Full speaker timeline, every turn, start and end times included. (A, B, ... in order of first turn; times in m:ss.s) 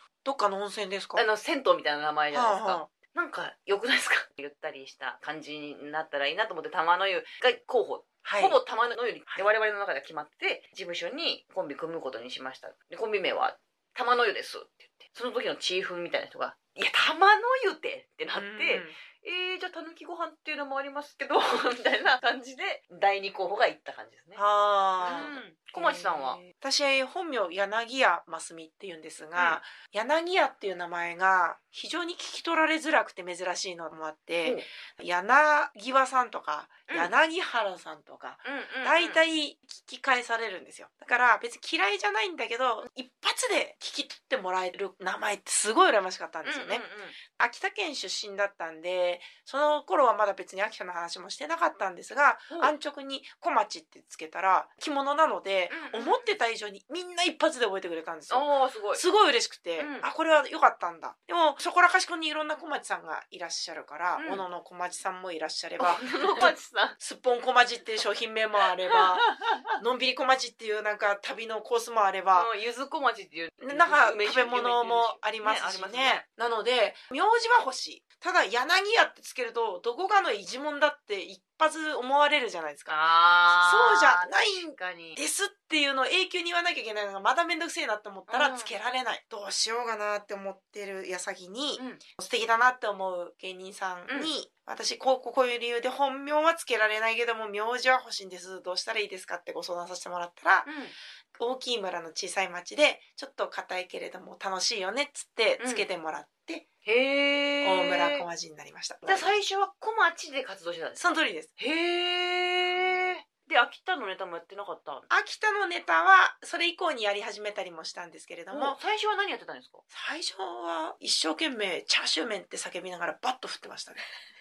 0:00.2-0:01.2 A
0:01.2-0:24.4 B
0:02.3-0:02.9 A
0:08.2-0:08.6 A
0:18.4-0:19.0 A
0:24.4-1:12.5 A
0:25.0-0:26.4 B
0:38.4-0:39.2 B
0:46.4-0:47.2 B
0:52.5-0:52.7 B
0:55.7-0:56.4 B
0:58.3-0:59.0 B
0:59.8-1:00.1 B
1:04.2-1:04.4 B
1:05.8-1:07.0 B
1:08.9-1:09.7 B
1:12.4-1:16.2 B
1:13.6-1:40.7 A
1:22.9-1:25.2 B
1:28.3-1:28.7 B
1:31.8-1:32.0 B
1:34.1-1:34.3 B
1:40.7-1:41.0 B
1:41.4-1:46.6 A
1:45.6-1:45.9 B
1:46.8-1:48.2 B
1:47.6-1:49.4 A
1:49.1-1:55.1 B
1:51.0-1:51.5 A
1:55.1-1:58.8 A
1:58.5-1:59.8 B
1:59.9-2:04.0 A